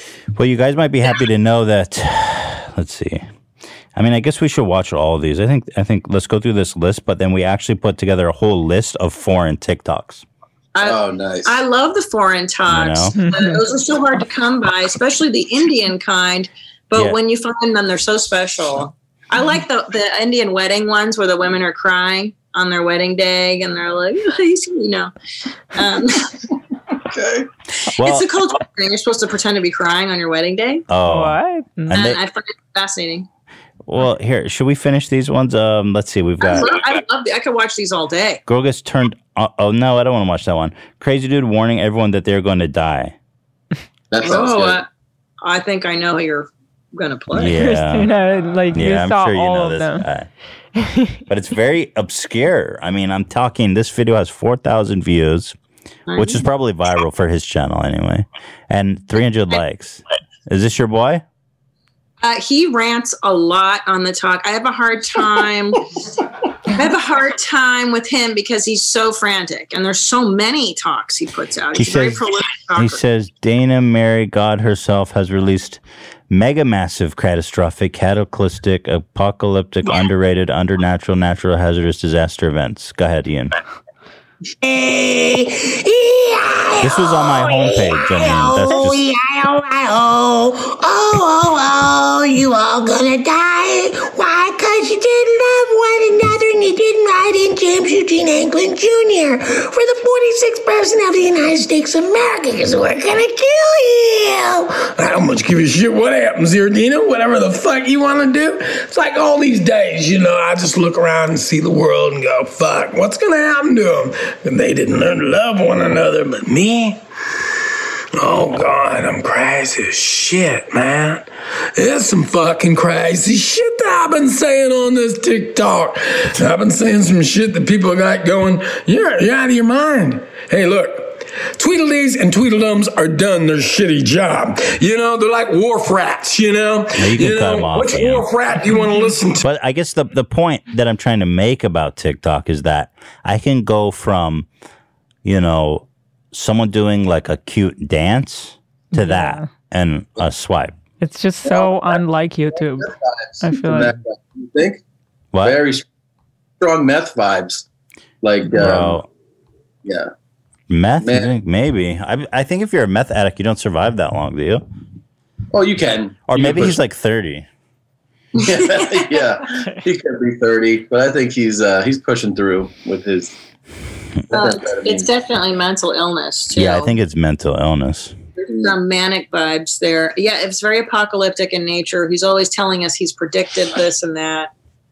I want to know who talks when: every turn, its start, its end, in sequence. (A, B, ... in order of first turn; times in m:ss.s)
0:00.4-0:03.2 A
0:04.0-0:10.2 A
0:10.7-0:25.1 B
0:10.8-0:11.6 C
0:12.6-0:13.2 A
0:13.2-0:13.6 D
0:25.7-0:26.3 B
0:27.1-0:27.5 C
0:28.0-0:28.3 A
0:28.0-0:30.8 B
0:30.9-0:32.2 A
0:31.0-0:32.0 D
0:31.9-0:33.3 B
0:33.9-0:36.7 A
0:36.4-0:38.4 B
0:38.5-0:43.1 A
0:44.1-0:44.8 C
0:44.2-0:44.9 B
0:45.4-0:47.6 B
0:47.3-0:48.1 A
0:47.6-0:50.0 D
0:48.7-0:50.3 A
0:50.8-0:51.2 D
0:51.3-0:55.6 A
0:56.1-0:56.4 B
0:56.2-1:01.2 A
1:02.2-1:05.8 B
1:06.7-1:13.0 B
1:11.7-1:12.2 A
1:12.8-1:23.5 A
1:24.6-1:44.8 E
1:26.8-1:29.0 A
1:44.8-1:57.0 F
1:58.2-2:19.4 F
2:17.0-2:18.3 A
2:19.4-2:24.5 A
2:25.2-2:30.8 A
2:28.9-2:29.5 D
2:31.0-2:33.9 D
2:31.4-2:32.0 C
2:32.5-2:34.8 C
2:35.3-2:35.6 A
2:35.4-2:35.8 C
2:36.6-2:37.6 C
2:38.2-2:39.0 C
2:38.5-2:39.0 A
2:39.8-2:40.1 C
2:40.7-2:44.6 A
2:41.0-2:41.3 C
2:45.5-2:46.8 C
2:46.3-2:47.4 A
2:48.4-2:53.3 C
2:48.4-2:48.9 B
2:54.3-2:55.1 C
2:54.3-2:56.9 B
2:56.5-2:58.2 A
2:58.4-3:04.5 B